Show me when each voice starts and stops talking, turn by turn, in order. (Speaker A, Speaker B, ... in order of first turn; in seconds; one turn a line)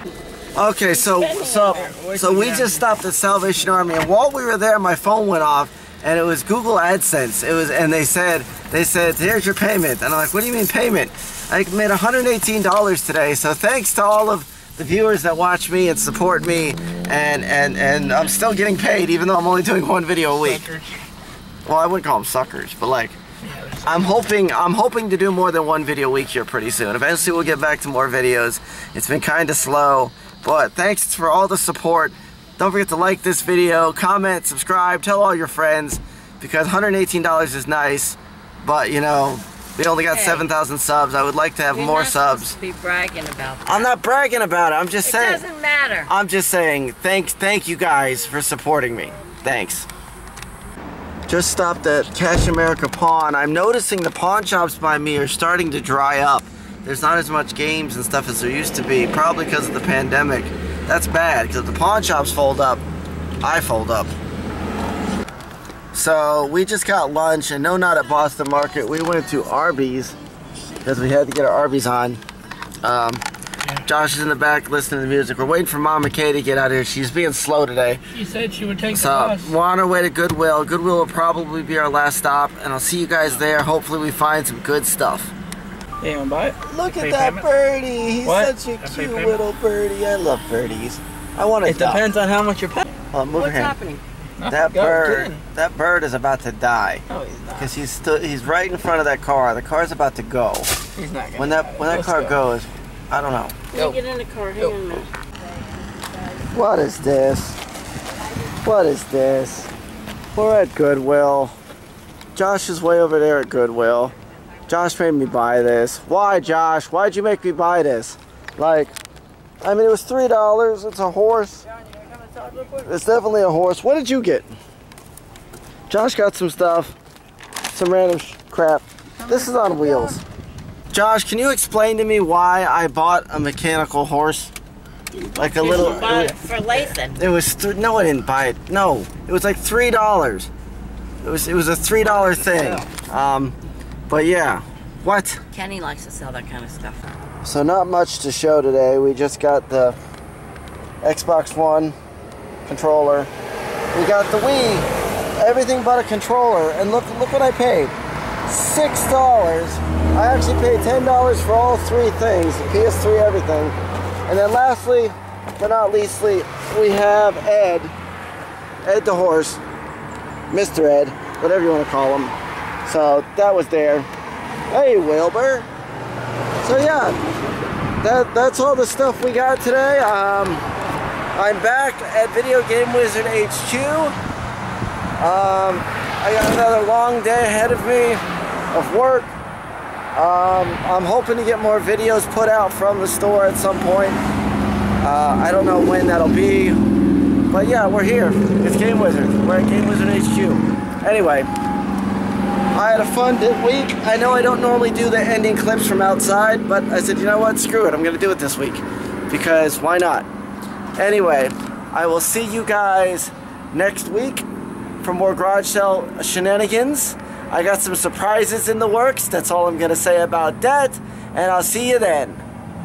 Speaker A: 0.6-20.7
Speaker B: 0.9-1.9
Speaker C: 1.7-3.0
Speaker D: 20.3-21.1
Speaker A: 21.6-23.2
Speaker D: 23.4-24.0
Speaker A: 23.9-42.6
Speaker B: 40.1-40.5
Speaker B: 41.7-43.9
Speaker A: 43.7-45.4
Speaker B: 45.0-46.1
Speaker A: 46.1-49.9
Speaker A: 51.3-62.8
Speaker A: 63.4-64.1
Speaker A: 65.9-70.2
Speaker A: 70.8-72.2
Speaker A: 72.8-73.2
Speaker A: 73.8-78.0
Speaker D: 78.1-79.5
Speaker A: 78.9-85.3
Speaker C: 86.0-86.6
Speaker A: 86.6-92.0
Speaker D: 86.8-87.5
Speaker C: 88.2-88.5
Speaker D: 88.8-89.4
Speaker C: 91.6-92.9
Speaker A: 93.1-93.7
Speaker B: 93.3-94.0
Speaker C: 94.4-95.4
Speaker A: 94.5-97.0
Speaker C: 97.1-97.7
Speaker A: 97.6-100.8
Speaker C: 101.0-102.4
Speaker A: 101.4-103.6
Speaker B: 103.7-105.1
Speaker C: 103.7-104.0
Speaker A: 106.5-107.6
Speaker A: 108.6-109.7
Speaker A: 110.3-111.6
Speaker A: 112.3-114.1
Speaker A: 114.7-118.9
Speaker A: 119.6-121.7
Speaker A: 122.7-124.5
Speaker A: 125.9-127.0
Speaker A: 127.7-130.2
Speaker C: 129.2-129.8
Speaker A: 130.9-134.5
Speaker C: 135.1-136.8
Speaker A: 135.4-136.4
Speaker B: 135.6-137.2
Speaker A: 137.1-140.5
Speaker A: 141.2-143.6
Speaker B: 142.1-142.8
Speaker A: 144.1-145.4
Speaker B: 145.5-147.1
Speaker A: 147.4-150.0
Speaker A: 151.0-152.0
Speaker A: 152.7-153.3
Speaker A: 153.9-163.8
Speaker A: 164.3-167.9
Speaker A: 168.8-169.6
Speaker A: 170.5-172.3
Speaker A: 172.9-174.1
Speaker A: 174.7-175.7
Speaker A: 176.6-177.2
Speaker A: 178.0-180.7
Speaker A: 181.3-184.2
Speaker A: 185.2-189.3
Speaker A: 190.2-194.2
Speaker A: 195.0-196.8
Speaker A: 197.5-201.5
Speaker A: 202.7-210.3
Speaker A: 211.0-214.5
Speaker A: 215.0-222.4